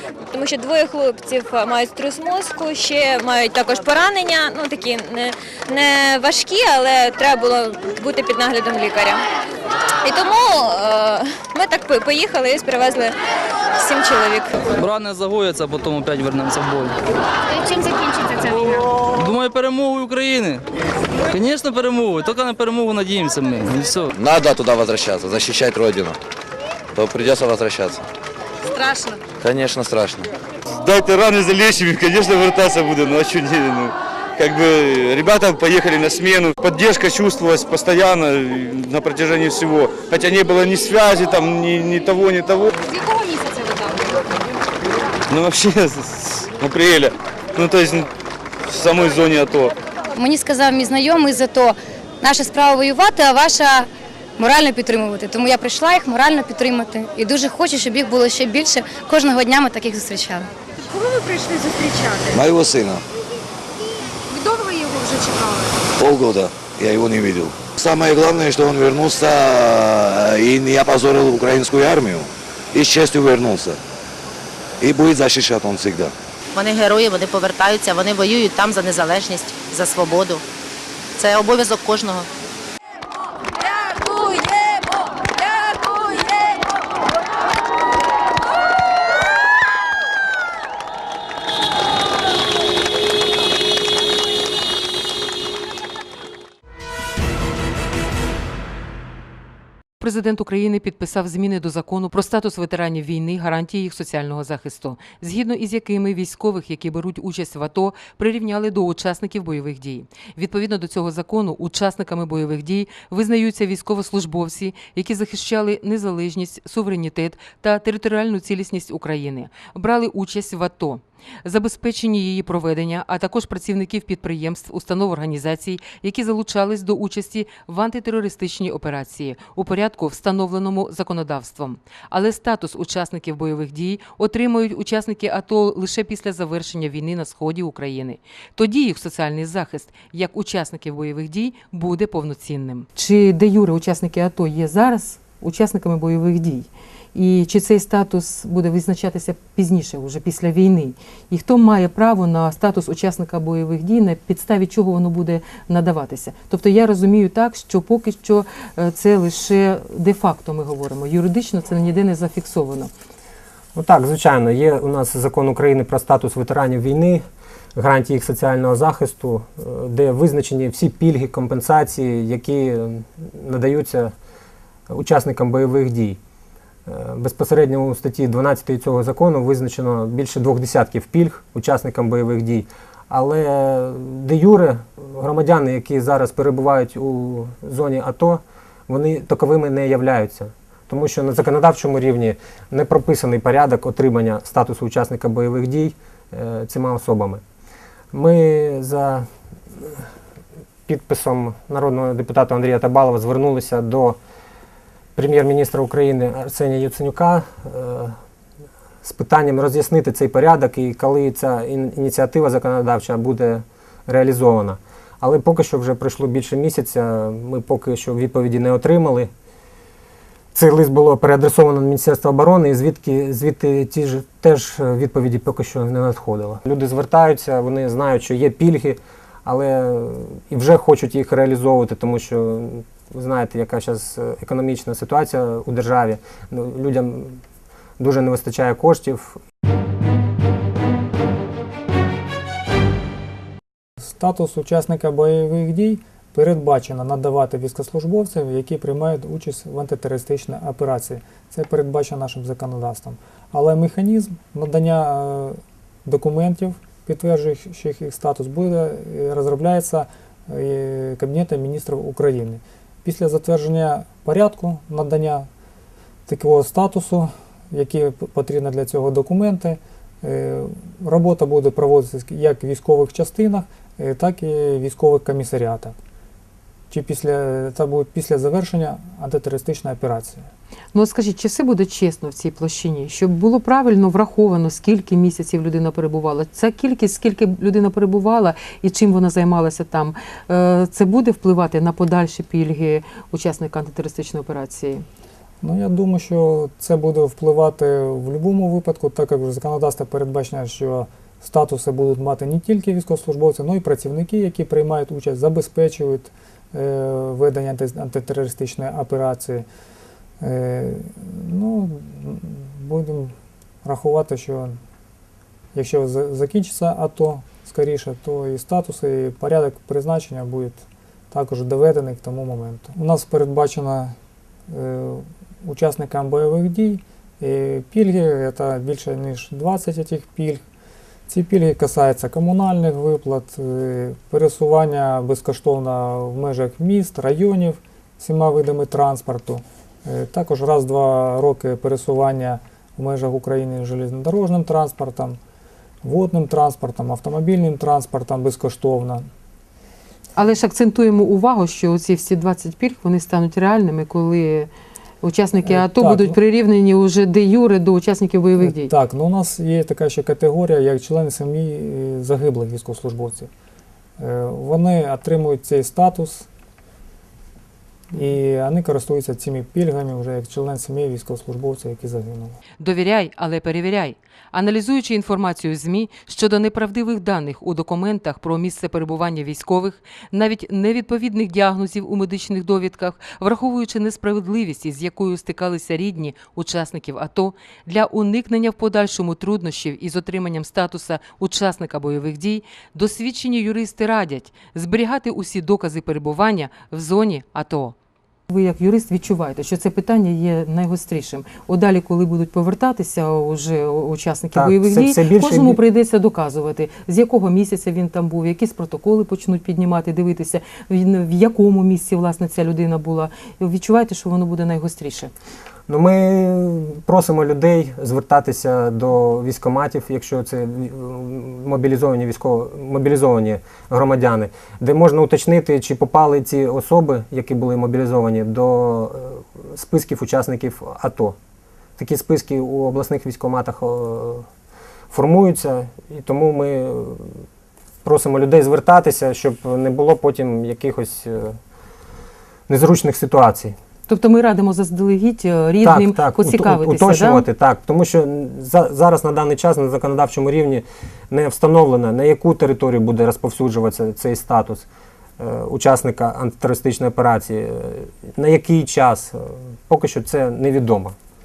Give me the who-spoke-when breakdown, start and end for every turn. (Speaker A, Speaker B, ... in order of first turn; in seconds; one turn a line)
Speaker A: 0.3-9.2
Speaker A: 10.0-13.1
Speaker A: 13.7-14.6
Speaker B: 14.7-16.9
Speaker C: 17.5-18.8
Speaker B: 19.1-20.6
Speaker B: 21.2-24.1
Speaker D: 24.1-26.2
Speaker D: 26.9-28.0
Speaker C: 28.7-29.1
Speaker D: 29.4-30.3
Speaker E: 30.8-42.7
Speaker C: 42.8-44.1
Speaker E: 45.3-48.1
Speaker E: 48.7-49.7
Speaker F: 50.1-60.5
Speaker C: 60.8-62.4
Speaker D: 62.3-63.0
Speaker C: 64.3-65.8
Speaker D: 66.0-73.8
Speaker D: 74.8-76.1
Speaker G: 76.5-80.4
Speaker G: 81.2-82.3
Speaker H: 100.0-162.9
Speaker I: 163.7-167.2
Speaker I: 167.8-174.1
Speaker I: 174.9-176.2
Speaker I: 176.8-197.4
Speaker I: 198.1-200.1
Speaker I: 200.9-204.2
Speaker I: 205.2-208.2
Speaker I: 209.0-219.3
Speaker I: 220.5-237.4
Speaker I: 238.0-239.4
Speaker J: 244.0-265.5
Speaker J: 266.3-276.0
Speaker J: 276.9-280.5
Speaker H: 280.9-295.0
Speaker J: 295.6-309.6
Speaker J: 310.4-314.8
Speaker J: 315.7-324.1
Speaker J: 324.7-330.6
Speaker J: 331.3-345.4
Speaker J: 346.0-349.3
Speaker H: 350.4-354.7
Speaker H: 355.2-358.9
Speaker J: 355.6-356.4
Speaker J: 358.6-363.5
Speaker J: 364.2-366.5
Speaker J: 368.1-372.6
Speaker H: 372.8-397.9
Speaker H: 398.5-415.3
Speaker I: 404.5-405.8
Speaker I: 415.9-431.4
Speaker I: 432.0-434.5
Speaker I: 435.1-437.4
Speaker I: 438.0-441.6
Speaker I: 442.7-443.8
Speaker H: 444.1-447.4
Speaker I: 445.8-454.8
Speaker I: 455.4-461.1